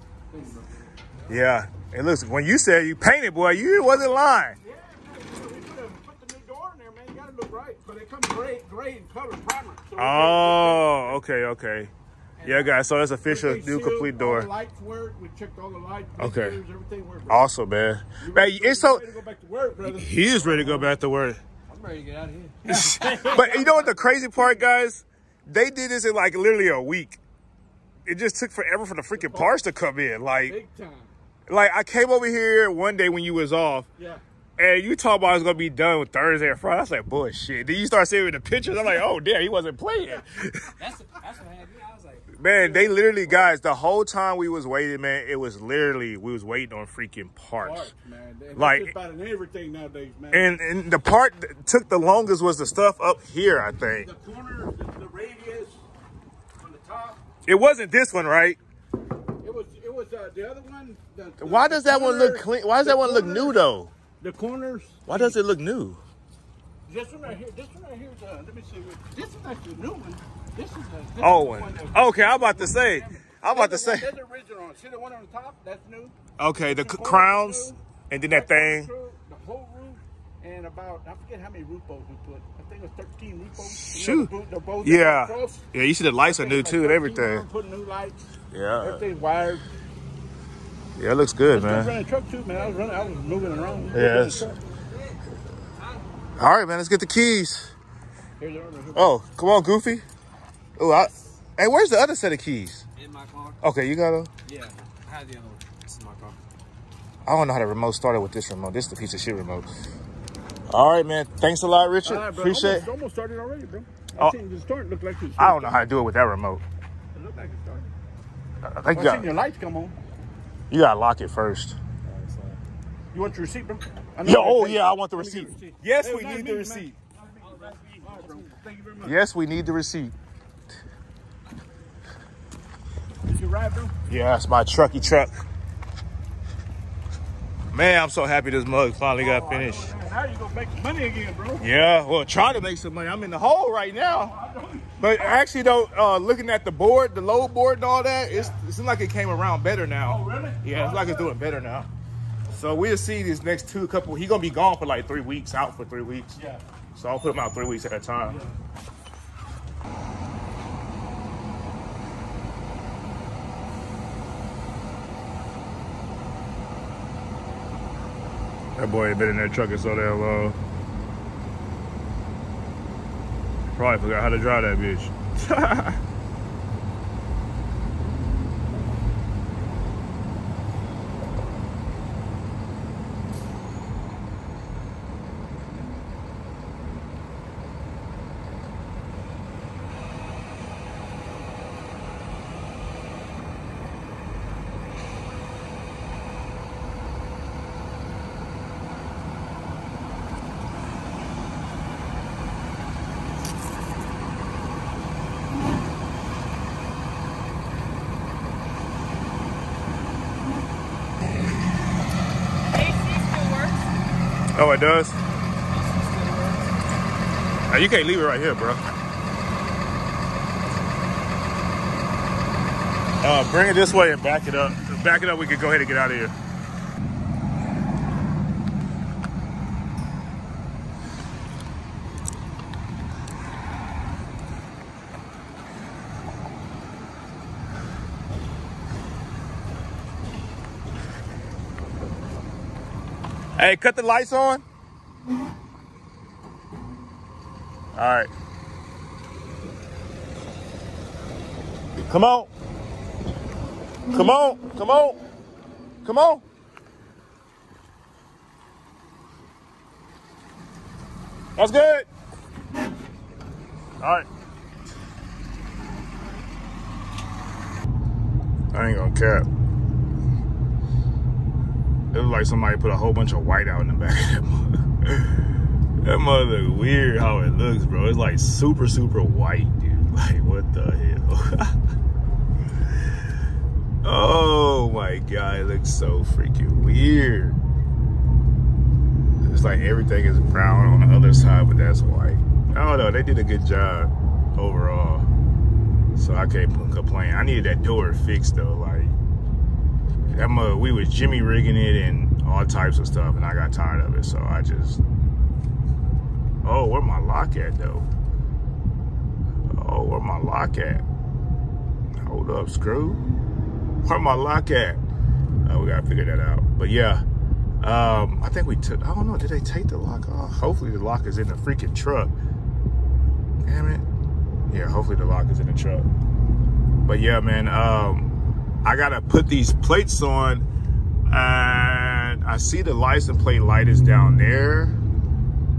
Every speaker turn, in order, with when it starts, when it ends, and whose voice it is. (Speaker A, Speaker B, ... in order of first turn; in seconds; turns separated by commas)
Speaker A: 0.3-1.1, Speaker B: 1.3-4.6, Speaker A: 4.6-11.2, Speaker B: 10.0-11.9, Speaker B: 12.4-14.5, Speaker A: 13.2-17.5, Speaker B: 16.2-16.6, Speaker B: 17.3-19.0, Speaker A: 18.2-20.9, Speaker B: 19.8-21.4, Speaker C: 21.7-23.7, Speaker A: 22.6-23.9, Speaker B: 22.7-27.2, Speaker B: 28.1-30.6, Speaker A: 29.1-29.5, Speaker A: 30.5-31.1, Speaker B: 31.5-33.9, Speaker A: 34.0-34.2, Speaker B: 34.6-40.7, Speaker C: 40.8-42.3, Speaker B: 42.3-47.9, Speaker A: 42.6-43.0, Speaker A: 47.6-50.5, Speaker B: 48.5-48.9, Speaker B: 50.3-54.1, Speaker A: 54.0-55.8, Speaker A: 56.6-57.2, Speaker B: 57.5-58.6, Speaker A: 59.4-63.6, Speaker B: 61.4-63.9, Speaker A: 64.2-65.3, Speaker B: 65.0-66.0, Speaker A: 66.9-77.8, Speaker B: 71.2-74.1, Speaker B: 76.4-78.9, Speaker A: 78.3-85.7, Speaker B: 83.6-84.3, Speaker B: 84.8-87.4, Speaker A: 86.2-88.3, Speaker B: 88.5-89.0, Speaker A: 88.8-89.6, Speaker B: 91.0-92.0, Speaker A: 91.5-94.6, Speaker C: 92.5-95.2, Speaker B: 93.9-94.5, Speaker B: 96.4-97.7, Speaker A: 98.4-99.2, Speaker B: 98.9-100.0, Speaker B: 100.8-102.8, Speaker C: 103.0-103.6, Speaker B: 103.6-104.3, Speaker C: 104.5-106.4, Speaker B: 107.2-109.7, Speaker B: 110.7-112.9, Speaker A: 112.0-115.8, Speaker B: 115.4-116.6, Speaker A: 117.1-117.9, Speaker B: 118.6-119.3, Speaker A: 118.9-120.0, Speaker B: 120.7-121.8, Speaker A: 123.1-129.2, Speaker B: 124.2-126.9, Speaker C: 127.4-128.4, Speaker B: 129.0-130.1, Speaker A: 133.2-133.9, Speaker B: 134.1-135.3, Speaker B: 137.7-139.9, Speaker A: 139.2-141.7, Speaker B: 141.6-144.3, Speaker A: 144.2-145.4, Speaker B: 145.0-151.9, Speaker A: 150.0-151.3, Speaker B: 152.5-156.4, Speaker A: 156.3-156.6, Speaker B: 156.9-158.4, Speaker A: 158.2-158.5, Speaker B: 168.8-170.6, Speaker B: 173.7-176.0, Speaker C: 212.7-213.9, Speaker B: 214.5-215.2, Speaker C: 215.7-216.7, Speaker B: 217.7-218.8, Speaker B: 223.2-226.3, Speaker B: 243.6-244.6, Speaker B: 247.9-248.3, Speaker B: 252.0-252.5, Speaker B: 254.1-255.2, Speaker B: 256.0-256.4, Speaker B: 261.6-262.1, Speaker B: 264.0-264.3, Speaker B: 268.7-269.5, Speaker B: 272.1-275.5, Speaker B: 276.0-281.7, Speaker B: 284.0-287.6, Speaker B: 289.4-295.2, Speaker B: 296.1-299.1, Speaker B: 300.3-305.0, Speaker B: 306.6-308.1, Speaker B: 309.7-311.0, Speaker B: 312.2-313.2, Speaker B: 314.0-315.0, Speaker B: 315.6-317.2, Speaker B: 317.8-322.3, Speaker B: 323.6-324.0, Speaker B: 324.7-326.1, Speaker B: 327.0-328.3, Speaker B: 328.8-330.6, Speaker B: 331.3-335.0